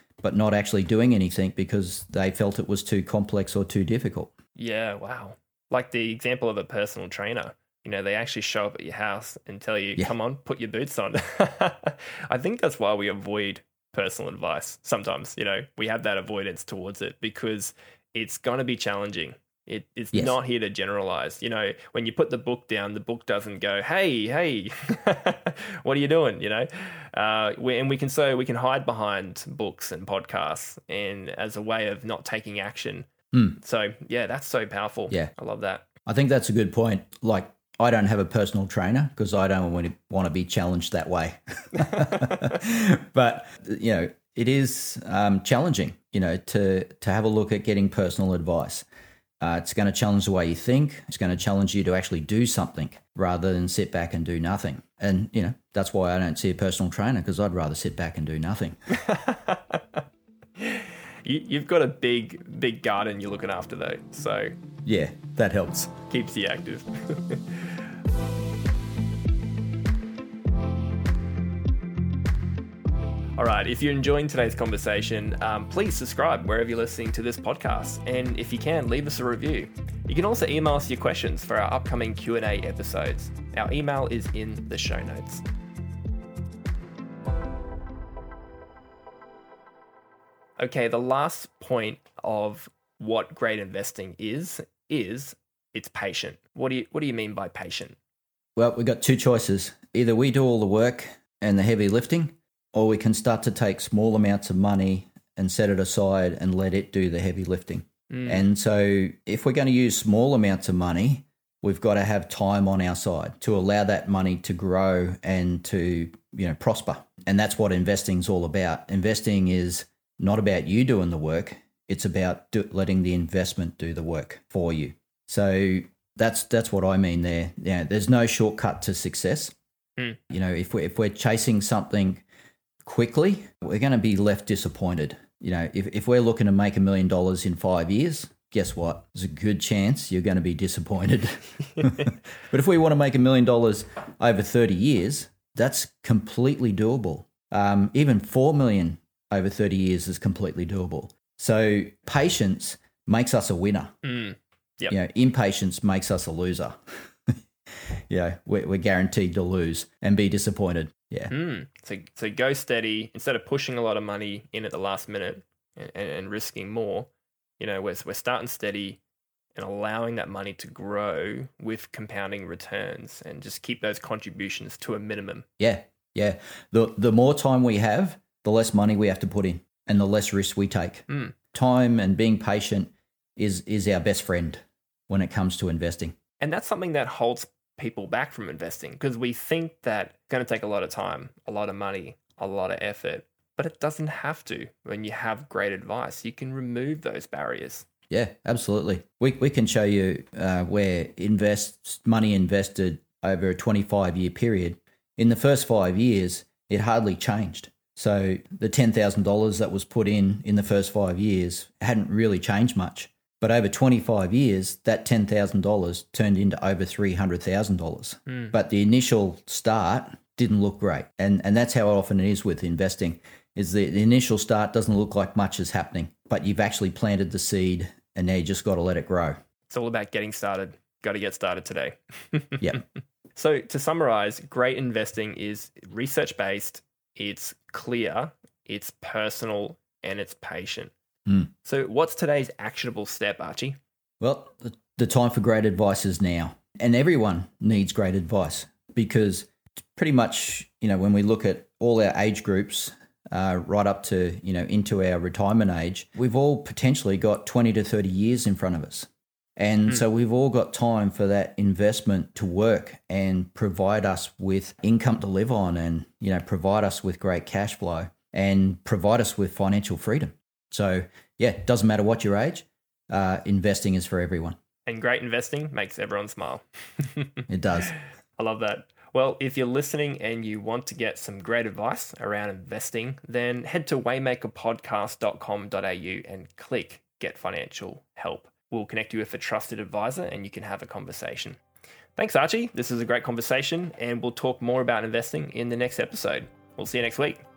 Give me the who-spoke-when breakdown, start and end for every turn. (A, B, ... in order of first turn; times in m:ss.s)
0:00.2-0:04.3 A
0:04.6-0:35.8 B
0:33.3-0:33.6 A
0:36.1-0:48.9 A
0:41.9-0:42.3 B
0:49.4-0:58.8 A
0:59.0-1:00.0 B
1:00.6-1:04.6 B
1:04.8-1:05.9 A
1:06.1-1:07.8 B
1:13.4-1:25.4 B
1:30.6-1:38.0 B
1:38.6-2:09.6 A
1:48.1-1:48.5 B
2:10.3-2:12.2 A
2:12.8-2:34.0 A
2:34.0-2:35.0 B
2:34.9-2:36.8 A
2:38.1-2:41.3 A
2:41.3-2:49.0 B
2:49.6-2:55.4 B
2:55.6-3:06.2 A
3:01.1-3:01.4 B
3:06.4-3:17.9 B
3:18.1-3:49.4 A
3:38.3-3:38.6 B
3:49.7-3:52.8 B
3:53.4-4:00.9 B
4:01.6-4:03.8 B
4:04.2-4:34.6 A
4:34.9-4:51.6 B
4:37.5-4:37.9 A
4:52.2-4:57.4 B